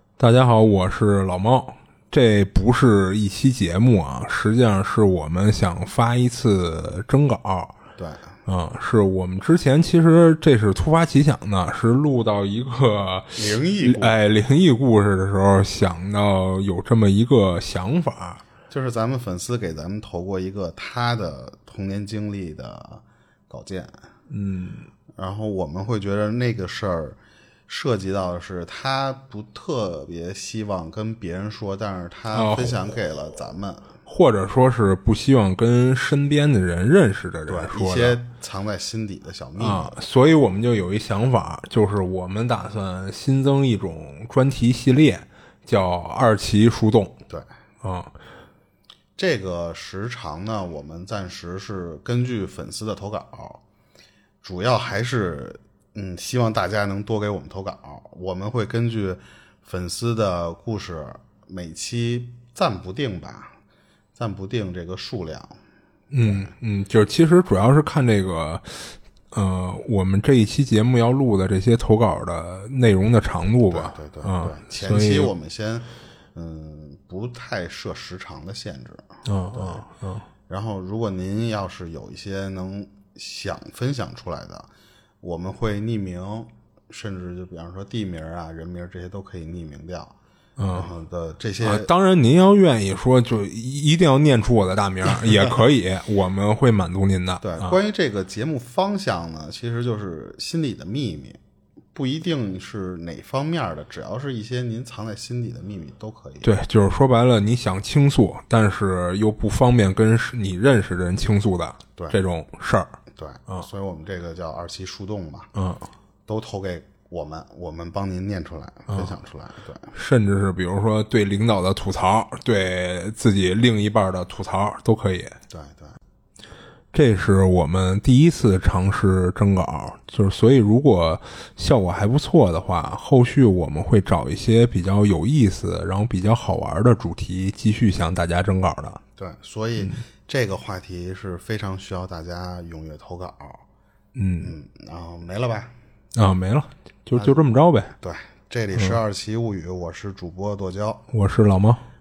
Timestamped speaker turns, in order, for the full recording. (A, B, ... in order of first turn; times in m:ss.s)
0:00.2-0:07.7 A
0:08.0-0:08.4 B
0:08.4-0:18.4 A
0:13.3-0:14.1 B
0:18.7-0:24.0 B
0:24.3-0:24.9 A
0:25.2-0:33.9 B
0:32.3-0:32.9 A
0:34.0-0:38.2 A
0:37.5-0:39.9 B
0:39.6-0:47.2 A
0:47.8-0:48.1 A
0:49.2-0:53.6 B
0:54.4-1:03.6 B
1:04.1-1:05.6 B
1:06.1-1:15.3 A
1:06.2-1:06.5 B
1:13.7-1:19.9 B
1:19.2-1:20.3 A
1:20.5-1:24.7 B
1:25.2-1:30.1 B
1:30.6-1:30.9 A
1:30.7-1:31.9 B
1:31.6-1:37.8 A
1:37.4-1:41.4 B
1:41.9-1:46.5 B
1:46.4-1:53.0 A
1:53.1-1:55.5 B
1:55.5-1:55.9 A
1:56.2-1:59.9 B
1:58.9-1:59.1 A
1:59.9-2:05.4 A
2:05.5-2:06.0 B
2:06.9-2:19.0 A
2:19.2-2:23.6 B
2:24.1-2:24.5 A
2:24.4-2:25.7 B
2:26.1-2:27.9 A
2:27.1-2:27.4 B
2:28.0-2:31.0 B
2:31.1-2:31.8 A